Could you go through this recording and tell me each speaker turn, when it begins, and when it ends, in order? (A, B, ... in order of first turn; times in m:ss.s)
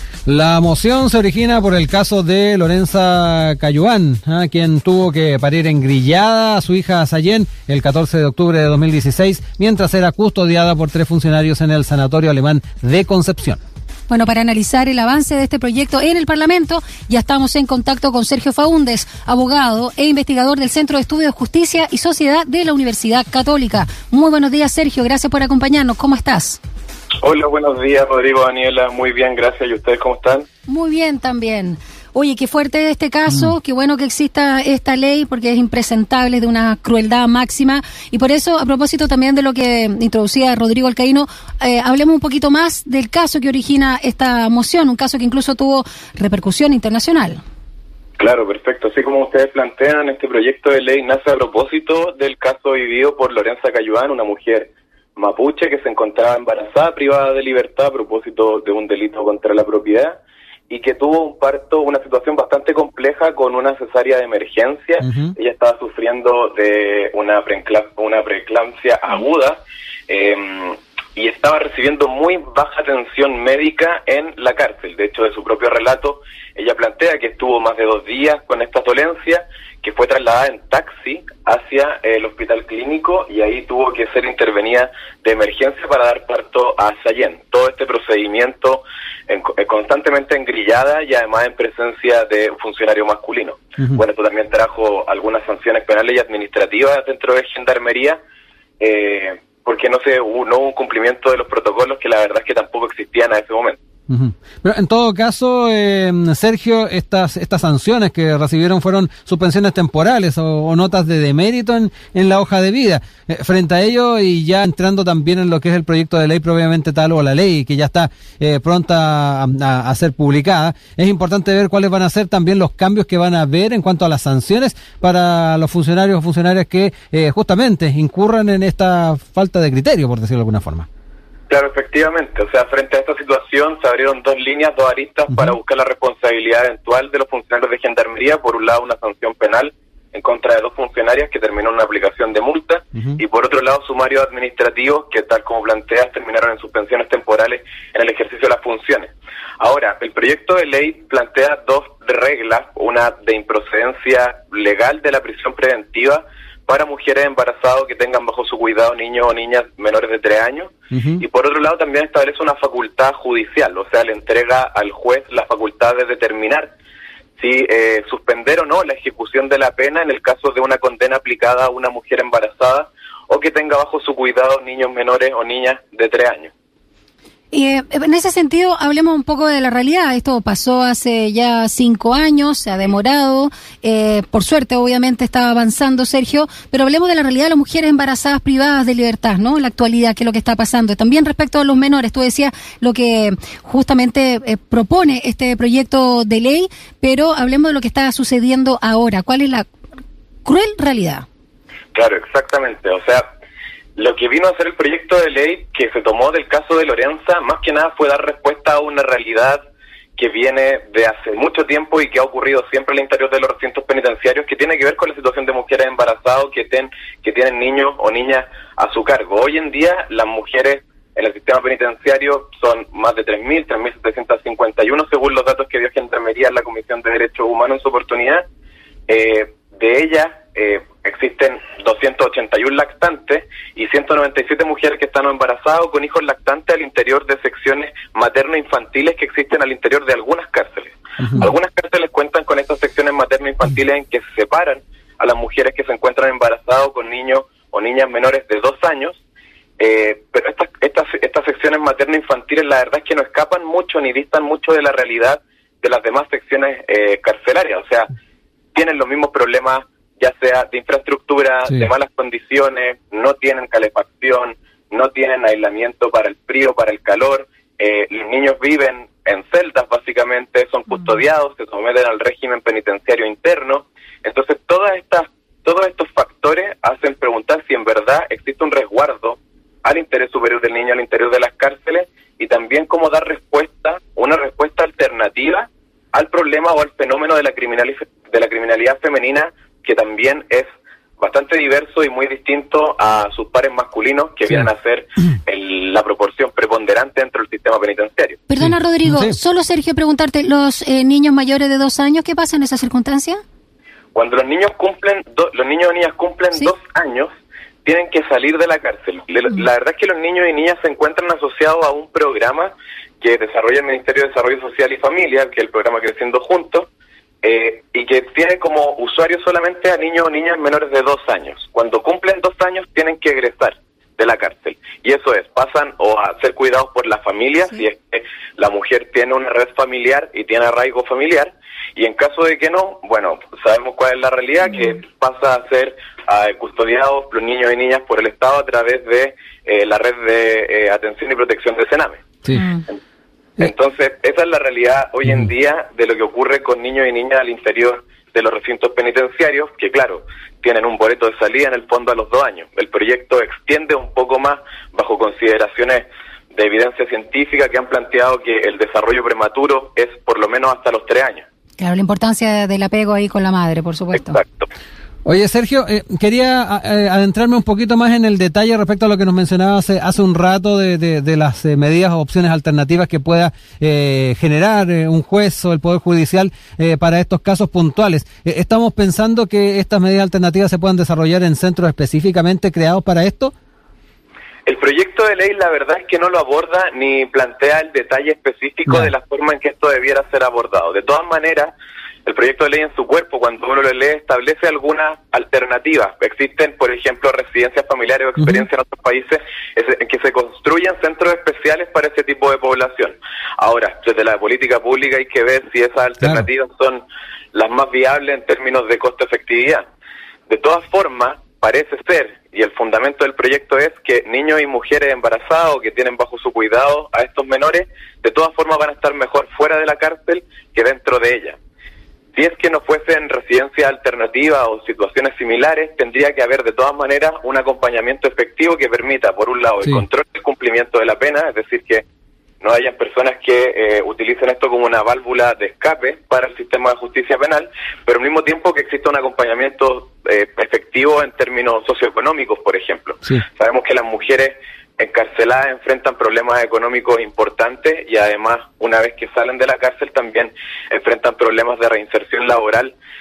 0:00.3-0:13.6 A
0:14.1-0:26.6 B
0:27.2-0:30.5 C
0:30.7-0:47.4 B
0:48.2-1:00.2 C
1:00.7-1:38.2 C
1:05.0-1:05.3 A
1:38.8-1:43.8 C
1:44.1-2:10.9 A
2:11.5-2:46.7 C
2:40.9-2:41.2 A
2:47.4-2:56.5 C
2:57.5-3:19.7 B
3:20.4-3:21.2 B
3:21.9-3:23.3 C
3:24.0-3:29.6 C
3:30.2-3:48.4 C
3:49.1-4:09.2 C
4:09.8-4:18.1 C
4:18.8-4:58.4 C
4:58.5-5:03.4 B
4:58.6-4:59.3 A
5:04.2-5:07.3 C
5:07.8-5:16.9 C
5:17.4-5:42.2 C
5:43.6-6:01.4 C
6:01.8-6:04.4 B
6:04.3-6:04.7 C
6:05.2-6:23.5 A
6:24.7-6:31.7 C
6:32.3-6:49.9 C
6:38.4-6:38.7 A
6:46.2-6:46.5 A
6:50.5-7:01.6 C
7:02.4-7:12.0 C
7:12.6-7:33.0 C